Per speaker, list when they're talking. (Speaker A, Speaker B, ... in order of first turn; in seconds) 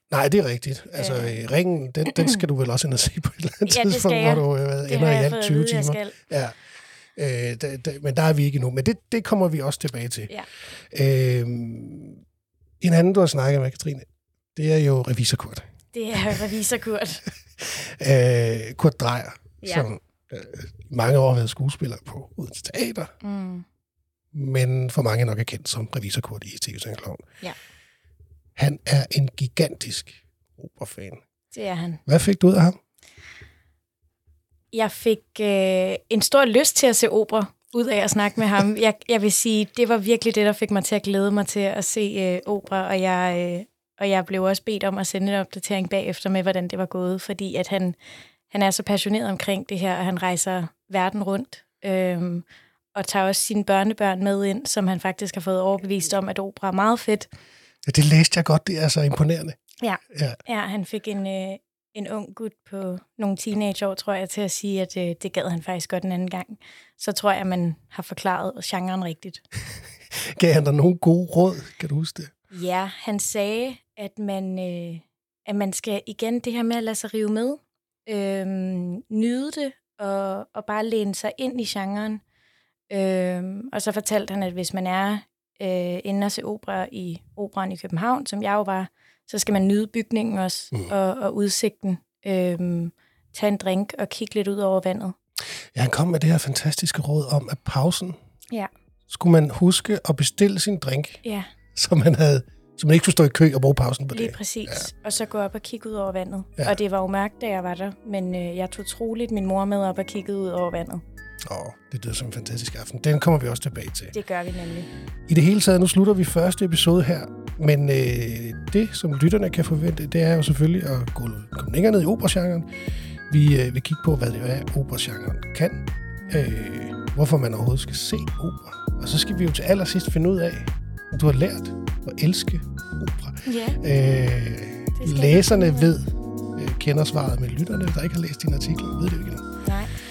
Speaker A: 0.1-6.5, 7.2-10.3, 10.9-12.2, 12.8-15.6, 17.6-23.1, 24.3-27.2, 28.6-31.2, 32.0-32.8, 57.9-59.6, 60.1-60.4, 70.1-72.3, 95.7-98.2, 99.1-101.2, 101.7-104.9, 111.4-114.1, 115.3-122.7, 123.3-139.4
Speaker B: 0.9-1.4, 2.1-2.3, 3.6-6.2, 15.9-17.2, 19.6-19.9, 23.2-23.6, 31.5-32.0, 34.7-48.0, 48.5-57.3, 59.8-69.4, 72.5-82.2, 82.9-95.2, 104.1-111.0, 114.1-114.9, 133.4-133.8, 135.0-136.0, 139.6-139.9